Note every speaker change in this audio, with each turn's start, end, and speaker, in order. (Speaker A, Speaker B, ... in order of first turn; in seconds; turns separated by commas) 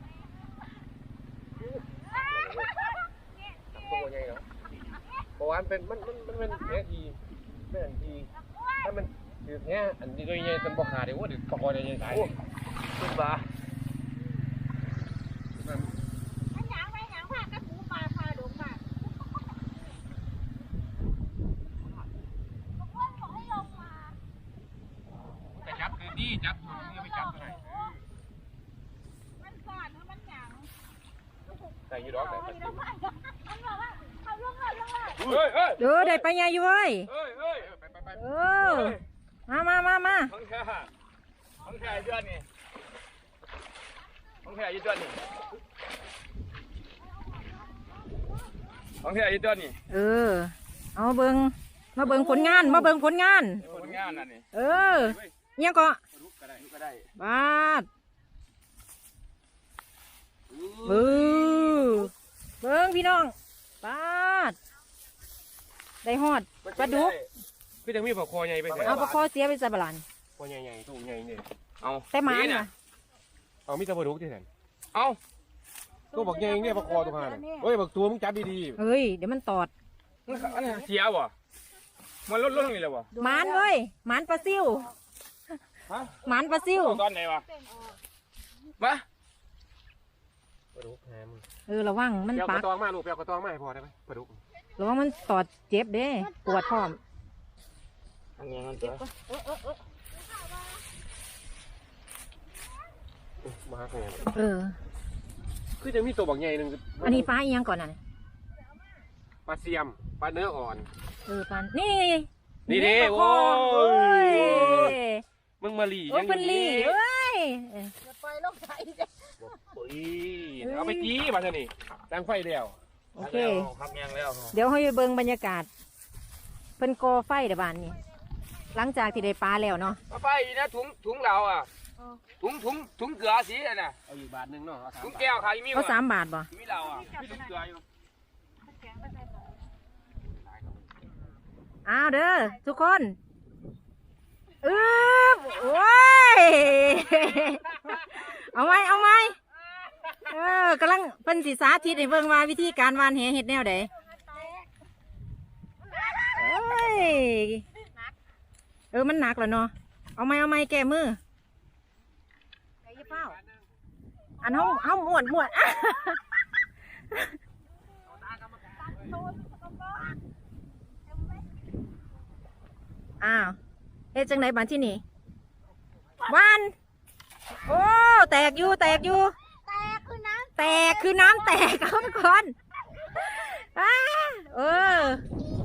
Speaker A: 1.6-2.7, Speaker A: 3.7-4.5, Speaker A: 5.4-8.3, Speaker A: 8.8-12.3, Speaker B: 13.0-13.4, Speaker A: 15.6-15.9, Speaker C: 16.5-18.9, Speaker C: 22.8-24.1, Speaker A: 25.6-27.7, Speaker C: 26.7-27.5, Speaker C: 29.4-30.7, Speaker A: 31.9-32.8, Speaker C: 32.2-35.2, Speaker B: 35.2-36.2, Speaker D: 35.8-37.1, Speaker B: 37.1-37.7, Speaker A: 37.6-38.2, Speaker D: 38.1-40.3, Speaker B: 38.6-39.0, Speaker B: 40.3-40.9, Speaker B: 41.6-42.5, Speaker B: 44.4-45.2, Speaker B: 49.0-49.8, Speaker D: 49.9-53.6, Speaker B: 52.1-52.8, Speaker B: 53.6-54.4, Speaker A: 53.6-54.3, Speaker D: 54.5-56.0, Speaker A: 54.9-55.3, Speaker A: 56.1-56.6, Speaker B: 56.6-57.1, Speaker D: 57.2-57.9, Speaker B: 60.6-61.9, Speaker D: 60.8-62.1, Speaker D: 62.6-64.5, Speaker D: 66.0-67.1, Speaker B: 66.6-67.3, Speaker A: 67.8-69.2, Speaker B: 68.7-69.2, Speaker D: 68.8-70.0, Speaker A: 70.4-71.5, Speaker B: 71.8-72.7, Speaker D: 72.1-72.7, Speaker A: 73.7-74.5, Speaker B: 74.9-75.2, Speaker C: 76.1-77.6, Speaker A: 76.1-78.8, Speaker D: 78.8-79.7, Speaker B: 80.3-81.3, Speaker B: 82.3-83.1, Speaker C: 83.1-83.6, Speaker D: 83.2-84.9, Speaker B: 85.9-87.5, Speaker D: 86.2-87.0, Speaker C: 87.7-88.0, Speaker B: 88.8-89.0, Speaker A: 90.7-91.4, Speaker D: 91.7-92.7, Speaker A: 92.3-94.4, Speaker D: 94.8-97.0, Speaker B: 98.4-99.0, Speaker C: 98.9-99.8, Speaker A: 103.4-104.3, Speaker D: 104.3-104.8, Speaker A: 105.8-107.3, Speaker D: 107.0-108.0, Speaker A: 109.5-110.9, Speaker D: 111.2-115.2, Speaker A: 112.7-115.0, Speaker A: 115.6-117.0, Speaker D: 116.1-117.9, Speaker C: 118.0-119.3, Speaker A: 119.4-122.8, Speaker D: 120.6-121.1, Speaker B: 120.9-121.2, Speaker D: 123.2-123.7, Speaker B: 123.2-124.5, Speaker D: 124.5-125.7, Speaker D: 126.8-128.0, Speaker D: 128.7-130.0, Speaker B: 130.1-131.7, Speaker B: 132.4-134.0, Speaker A: 134.1-135.5, Speaker B: 135.0-136.0, Speaker D: 135.7-136.5, Speaker B: 136.5-137.8, Speaker C: 138.8-139.3, Speaker D: 141.8-143.2, Speaker D: 144.6-149.4, Speaker D: 150.2-153.9, Speaker C: 153.9-154.7, Speaker C: 155.8-156.3, Speaker D: 156.3-157.6, Speaker D: 158.9-161.2, Speaker D: 162.8-163.3, Speaker A: 162.9-163.7, Speaker D: 164.4-166.2, Speaker D: 167.1-167.4, Speaker A: 168.1-169.2, Speaker C: 168.9-170.2, Speaker C: 171.1-171.4, Speaker D: 173.2-173.6, Speaker D: 174.1-175.0, Speaker D: 176.2-176.7, Speaker D: 177.7-179.3, Speaker C: 179.6-181.5, Speaker D: 180.6-182.5, Speaker D: 183.1-185.2